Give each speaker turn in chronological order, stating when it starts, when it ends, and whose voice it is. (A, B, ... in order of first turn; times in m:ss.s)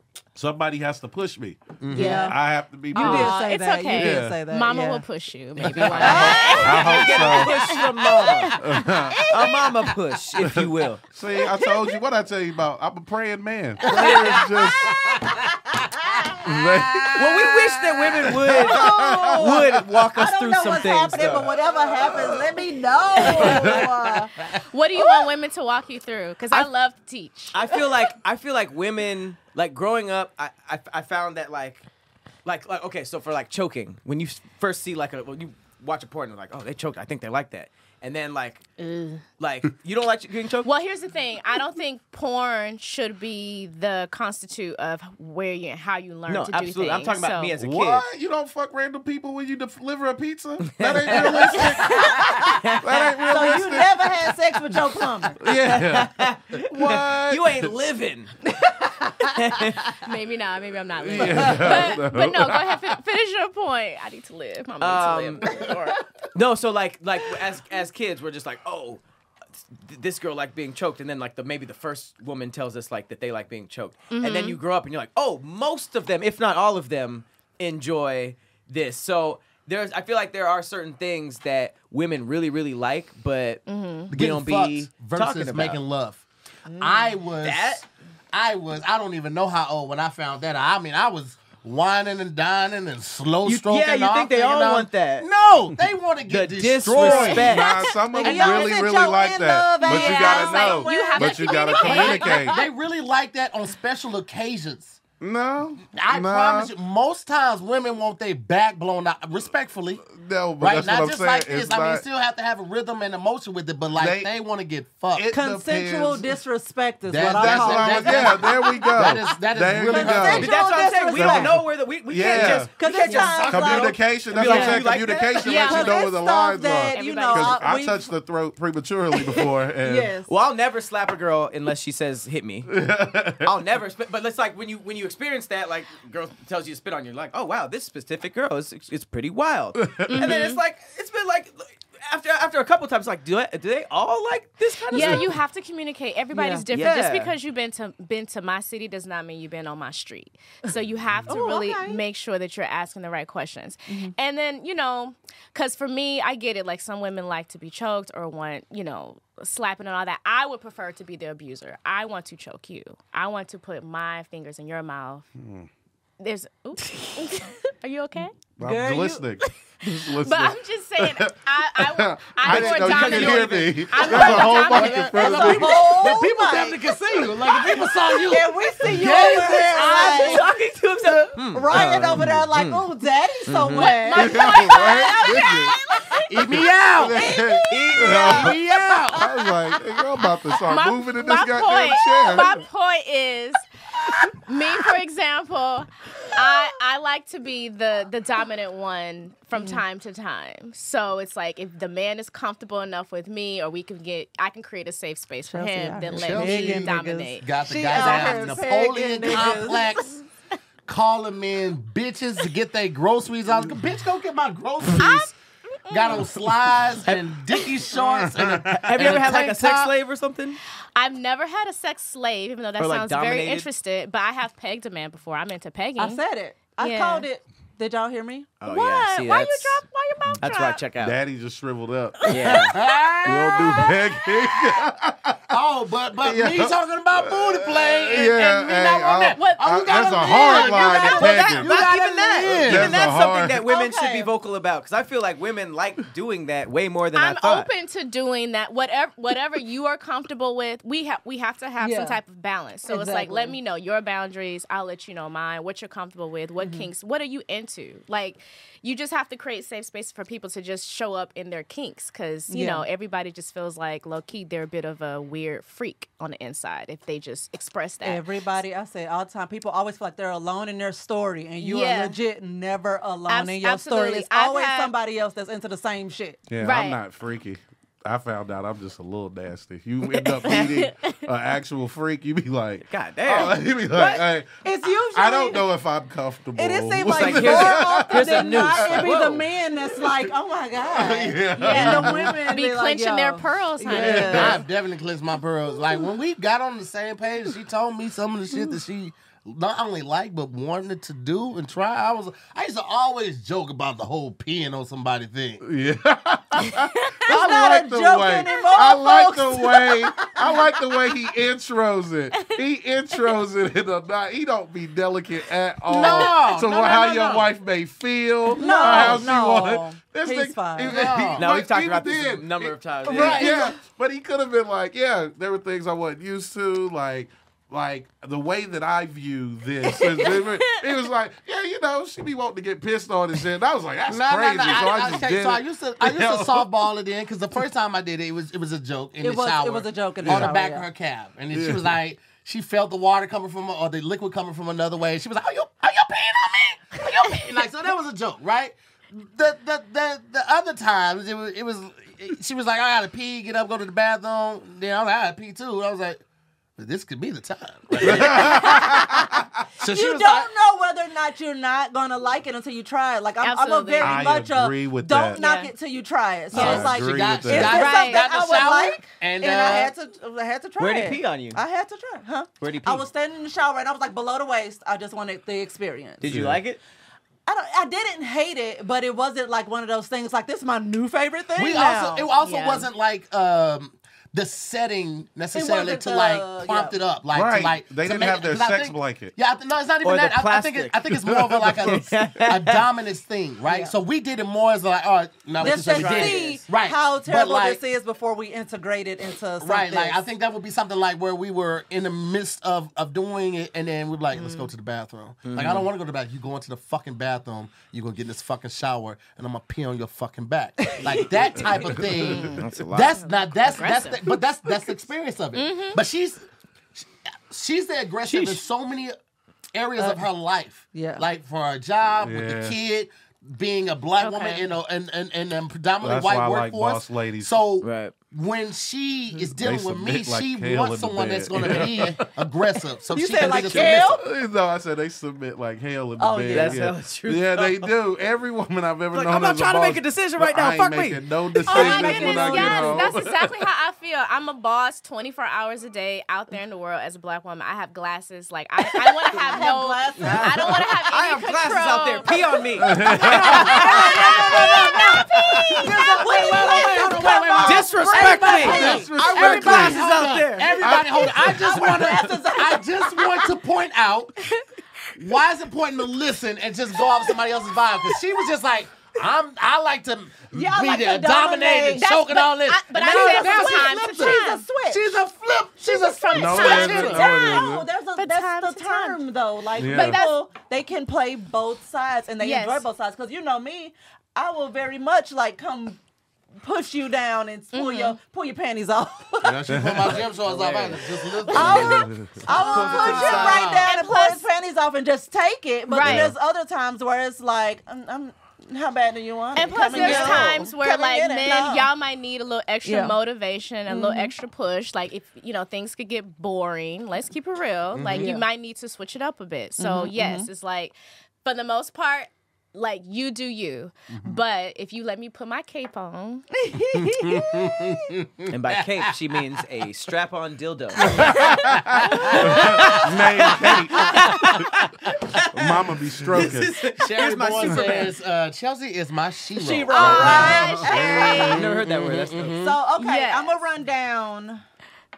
0:00.3-0:04.4 A
0:01.8-0:02.3 B
0:01.9-0:02.4 C
0:02.9-0:05.0 C
0:02.9-0:09.8 D
0:05.6-0:06.5 B
0:05.7-0:07.7 A
0:05.9-0:08.6 E
0:06.0-0:06.7 C
0:08.6-0:09.3 A
0:09.3-0:11.0 E
0:10.4-0:15.1 A
0:11.5-0:11.8 D
0:13.9-0:15.0 C
0:14.0-0:15.5 B
0:16.4-0:17.6 A
0:16.6-0:17.2 B
0:17.1-0:21.6 E
0:18.3-0:19.8 A
0:18.5-0:24.3 C
0:23.2-0:23.8 D
0:23.2-0:23.6 B
0:23.3-0:23.9 A
0:24.5-0:27.9 D
0:27.5-0:31.8 E
0:32.4-0:38.7 E
0:38.8-0:39.2 D
0:39.4-0:40.7 E
0:40.6-0:47.5 D
0:46.3-0:48.0 E
0:47.6-0:54.2 A
0:50.6-0:52.8 E
0:51.6-0:52.4 D
0:51.9-0:52.3 C
0:53.3-0:55.4 C
0:55.4-0:57.7 A
0:55.4-0:58.4 E
0:58.8-0:59.1 C
0:59.2-1:00.0 E
1:00.0-1:06.0 D
1:01.0-1:03.0 A
1:04.8-1:05.7 E
1:06.3-1:09.0 E
1:09.7-1:25.8 E
1:14.1-1:14.6 D
1:23.7-1:24.1 D
1:24.1-1:26.2 B
1:26.8-1:37.6 B
1:26.8-1:27.8 E
1:33.4-1:35.3 E
1:36.3-1:37.9 E
1:36.9-1:42.6 A
1:37.4-1:38.6 D
1:37.5-1:42.4 C
1:38.3-1:38.8 B
1:39.8-1:42.6 D
1:41.9-1:45.0 B
1:45.2-1:46.7 A
1:45.9-1:50.0 B
1:50.0-1:52.0 A
1:50.6-1:55.3 B
1:54.0-1:54.3 A
1:55.1-1:56.3 A
1:55.3-1:59.2 C
1:57.1-2:00.5 B
1:57.2-2:00.5 A
1:59.8-2:01.6 C
2:00.3-2:05.8 E
2:01.1-2:02.7 A
2:02.3-2:08.1 C
2:03.1-2:03.4 D
2:03.3-2:03.9 B
2:03.4-2:10.1 A
2:05.3-2:06.0 D
2:06.9-2:07.7 D
2:09.2-2:10.3 C
2:10.2-2:12.8 E
2:12.7-2:13.5 A
2:13.4-2:25.4 E
2:19.8-2:20.4 A
2:20.1-2:20.6 D
2:24.9-2:45.3 D
2:25.0-2:25.2 C
2:26.3-2:26.6 C
2:26.7-2:27.3 E
2:31.1-2:31.4 A
2:31.3-2:32.0 C
2:45.4-2:45.7 A
2:46.2-2:48.5 D
2:48.6-2:55.8 A
2:48.6-2:49.3 C
2:49.8-2:55.6 D
2:52.5-2:54.1 E
2:52.6-3:00.5 B
2:55.2-2:56.9 C
2:57.6-3:00.5 C
2:59.8-3:02.8 E
3:01.2-3:06.3 C
3:01.7-3:02.3 A
3:03.5-3:04.4 E
3:03.7-3:06.2 D
3:04.1-3:05.7 A
3:06.2-3:07.3 B
3:06.3-3:08.6 A
3:07.1-3:08.1 C
3:07.6-3:08.6 E
3:08.0-3:09.2 B
3:09.1-3:12.6 A
3:10.6-3:13.6 D
3:14.3-3:28.4 D
3:19.5-3:19.8 C
3:25.5-3:29.9 C
3:26.1-3:30.2 B
3:30.9-3:35.3 B
3:35.0-3:35.3 D
3:35.8-3:36.5 D
3:35.9-3:39.9 B
3:38.3-3:38.8 A
3:38.6-3:40.6 E
3:40.9-3:46.2 D
3:42.8-3:43.7 E
3:46.0-3:48.5 C
3:46.8-3:47.3 D
3:48.6-3:49.8 E
3:48.6-3:50.8 D
3:50.4-3:51.2 E
3:51.0-3:52.6 A
3:52.3-3:52.7 E
3:52.6-3:53.7 B
3:53.2-3:55.6 A
3:53.7-3:54.0 D
3:55.5-4:03.0 B
3:56.2-4:01.7 A
3:59.4-4:01.6 D
4:01.4-4:07.7 E
4:02.4-4:03.6 A
4:03.6-4:04.3 C
4:07.1-4:28.3 D
4:11.8-4:12.2 C
4:12.9-4:13.6 C
4:16.6-4:16.9 C
4:22.5-4:22.8 C
4:28.0-4:36.5 C
4:31.6-4:32.2 D
4:33.3-4:34.9 D
4:36.5-4:44.5 A
4:36.6-4:37.0 D
4:40.1-4:41.2 D
4:42.8-4:43.6 E
4:43.9-4:45.6 C
4:45.1-4:49.2 A
4:46.6-4:54.6 C
4:47.0-4:49.5 E
4:50.9-4:52.4 A
4:51.5-4:54.6 D
4:53.9-5:05.6 B
4:54.0-4:54.6 A
5:05.6-5:36.7 A
5:06.7-5:07.2 D
5:07.3-5:10.6 C
5:15.9-5:17.5 B
5:16.0-5:16.3 D
5:18.5-5:21.0 C
5:18.6-5:19.0 D
5:20.9-5:21.5 B
5:21.4-5:23.5 E
5:23.1-5:23.5 B
5:23.1-5:23.7 C
5:29.9-5:30.8 D
5:34.1-5:56.2 B
5:39.2-5:40.9 C
5:40.2-5:40.5 A
5:41.5-5:42.0 A
5:56.8-5:59.0 B
5:58.0-5:59.4 A
5:58.2-6:16.2 C
5:59.8-6:00.5 B
6:03.4-6:04.2 D
6:04.0-6:05.4 A
6:05.3-6:05.7 D
6:06.5-6:07.9 A
6:06.5-6:09.9 B
6:07.6-6:08.3 D
6:10.8-6:11.6 E
6:12.6-6:13.0 E
6:16.2-6:16.8 E
6:16.2-6:16.6 A
6:17.4-6:22.3 C
6:21.5-6:37.8 B
6:22.4-6:22.9 D
6:25.5-6:27.0 C
6:27.3-6:29.3 A
6:30.0-6:32.8 E
6:31.1-6:32.0 A
6:33.7-6:33.9 C
6:35.6-6:36.6 E
6:35.6-6:40.2 C
6:39.6-6:59.2 B
6:44.3-6:44.7 D
6:45.4-6:45.9 E
6:50.8-6:51.6 C
6:51.8-6:52.6 A
6:52.1-6:53.2 E
6:53.2-6:54.3 D
6:55.5-6:56.0 D
6:58.3-6:58.6 E
6:59.7-7:14.2 B
7:00.0-7:00.2 C
7:00.9-7:01.2 C
7:02.2-7:02.8 A
7:04.2-7:04.7 D
7:06.0-7:07.6 A
7:07.8-7:08.1 E
7:09.4-7:12.2 A
7:13.1-7:14.2 C
7:13.4-7:13.9 E
7:13.9-7:23.5 A
7:16.2-7:16.9 C
7:16.5-7:17.9 E
7:19.1-7:21.7 E
7:21.7-7:35.2 D
7:21.7-7:23.2 C
7:29.0-7:30.9 C
7:31.0-7:34.6 E
7:32.8-7:33.9 A
7:32.9-7:40.3 C
7:33.2-7:44.4 B
7:35.3-7:35.8 A
7:36.3-7:37.2 D
7:37.6-7:40.7 E
7:38.6-7:40.1 A
7:40.7-7:42.2 A
7:41.3-7:43.4 C
7:45.1-7:57.3 B
7:47.0-7:47.4 D
7:50.5-7:52.2 C
7:52.0-7:54.6 D
7:52.9-7:55.1 C
7:55.8-7:59.2 D
7:56.3-7:57.9 A
7:56.5-8:06.0 C
7:59.8-8:00.2 A
7:59.8-8:00.4 D
8:02.4-8:02.8 D
8:06.6-8:10.1 C
8:07.7-8:08.2 D
8:09.4-8:13.9 B
8:09.7-8:10.2 A
8:10.4-8:11.7 E
8:11.5-8:21.9 C
8:11.6-8:12.4 A
8:12.5-8:14.5 D
8:12.5-8:13.8 E
8:15.9-8:16.3 D
8:19.5-8:36.4 D
8:20.0-8:20.6 B
8:22.8-8:23.2 C
8:23.9-8:24.3 C
8:27.9-8:28.3 B
8:28.1-8:28.4 C
8:29.8-8:30.5 C
8:36.6-8:37.7 C
8:36.9-8:39.1 B
8:38.5-8:41.2 E
8:41.0-8:43.0 B
8:41.1-8:44.6 A
8:42.2-8:43.0 C
8:42.4-8:48.1 E
8:44.0-8:44.3 C
8:45.4-8:46.7 A
8:46.3-8:52.8 B
8:49.6-8:51.6 C
8:49.9-8:51.6 D
8:50.3-8:51.6 A
8:51.3-8:52.6 E
8:52.6-8:54.6 C
8:52.9-8:53.6 D